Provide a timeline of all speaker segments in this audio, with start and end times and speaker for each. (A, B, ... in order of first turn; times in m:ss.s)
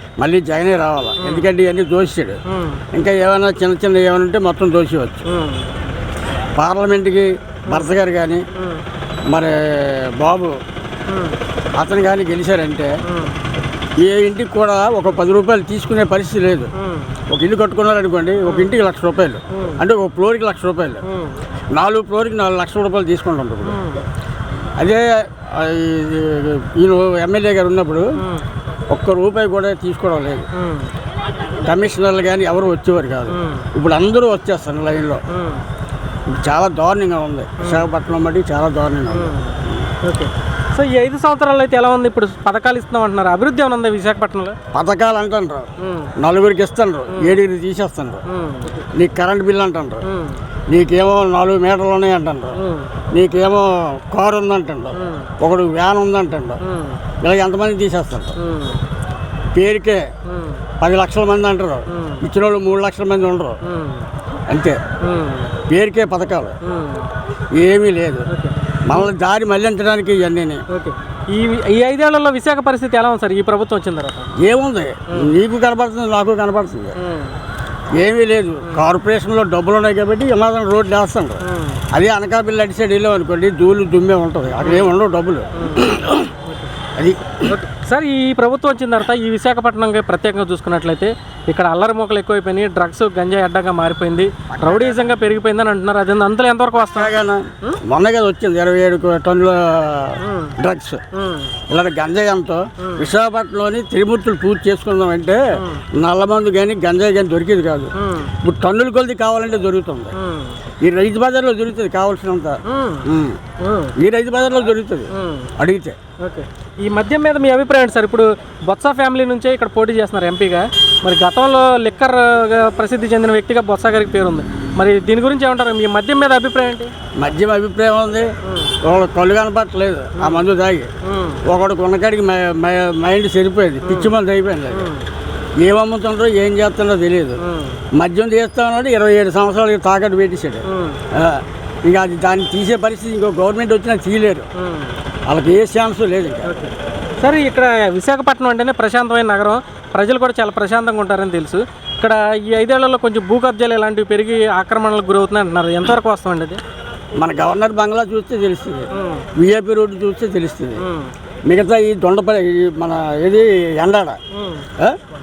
0:00.2-0:02.4 A
0:01.2-0:01.5 B
0:02.5-0:02.8 B
0:02.9-0:05.3 A
0:05.3-0:05.7 B
0:06.6-0:08.4 A
0:08.6-0:08.8 B
0:09.3-0:10.6 A
0:11.1-0:11.4 B
0:11.8-0:12.9 A
0:13.1-0:13.4 B
0:14.0-0:16.7 A
0:16.8-0:17.2 B
0:17.3-0:21.0 A
0:18.4-0:18.8 B
0:19.5-0:19.8 B
0:21.1-0:21.4 B
0:21.7-0:23.8 A
0:23.7-0:24.1 B
0:24.8-0:28.2 A
0:28.2-0:28.4 B
0:28.9-0:30.5 A
0:30.6-0:30.9 B
0:31.6-0:35.2 A
0:33.3-0:33.7 B
0:35.3-0:35.6 B
0:36.3-0:39.4 A
0:39.1-0:44.6 B
0:44.7-0:48.2 A
0:45.8-0:46.1 B
0:47.1-0:47.4 B
0:48.3-0:48.9 B
0:48.9-0:50.0 A
0:50.0-0:50.4 B
0:50.7-0:52.6 A
0:52.6-0:52.9 B
0:53.1-0:56.6 A
0:55.0-0:55.3 B
0:56.6-0:57.0 B
0:57.2-0:58.4 A
0:58.4-0:58.8 B
0:59.5-1:00.1 A
1:00.3-1:00.6 B
1:00.8-1:03.6 A
1:01.9-1:02.2 B
1:03.6-1:04.1 B
1:04.5-1:04.8 A
1:05.0-1:05.6 B
1:05.7-1:06.6 A
1:06.6-1:07.1 B
1:07.6-1:08.3 A
1:08.3-1:08.6 B
1:08.8-1:10.6 A
1:10.7-1:14.4 B
1:14.4-1:17.0 A
1:17.0-1:17.4 B
1:18.0-1:26.3 A
1:21.4-1:21.8 B
1:24.6-1:24.9 B
1:25.6-1:25.9 B
1:27.0-1:27.5 A
1:27.4-1:37.8 B
1:36.9-1:41.0 A
1:40.2-1:40.6 B
1:41.2-1:41.5 B
1:41.7-1:50.2 A
1:42.8-1:43.1 B
1:45.6-1:45.8 B
1:48.0-1:48.3 B
1:50.2-1:50.6 B
1:50.8-1:53.4 A
1:52.7-1:53.1 B
1:53.6-1:53.9 B
1:54.0-1:56.0 A
1:55.1-1:55.5 B
1:56.2-2:06.9 B
2:07.2-2:10.9 A
2:08.4-2:08.7 B
2:10.2-2:10.5 B
2:11.0-2:11.4 B
2:11.4-2:14.9 A
2:13.8-2:14.1 B
2:14.7-2:15.0 B
2:15.6-2:17.4 A
2:17.4-2:17.8 B
2:17.9-2:24.5 A
2:20.7-2:21.0 B
2:24.6-2:25.0 B
2:25.3-2:26.5 A
2:26.4-2:36.6 B
2:37.2-2:40.8 A
2:38.9-2:39.3 B
2:40.8-2:41.1 B
2:41.5-2:44.2 A
2:44.4-2:44.7 B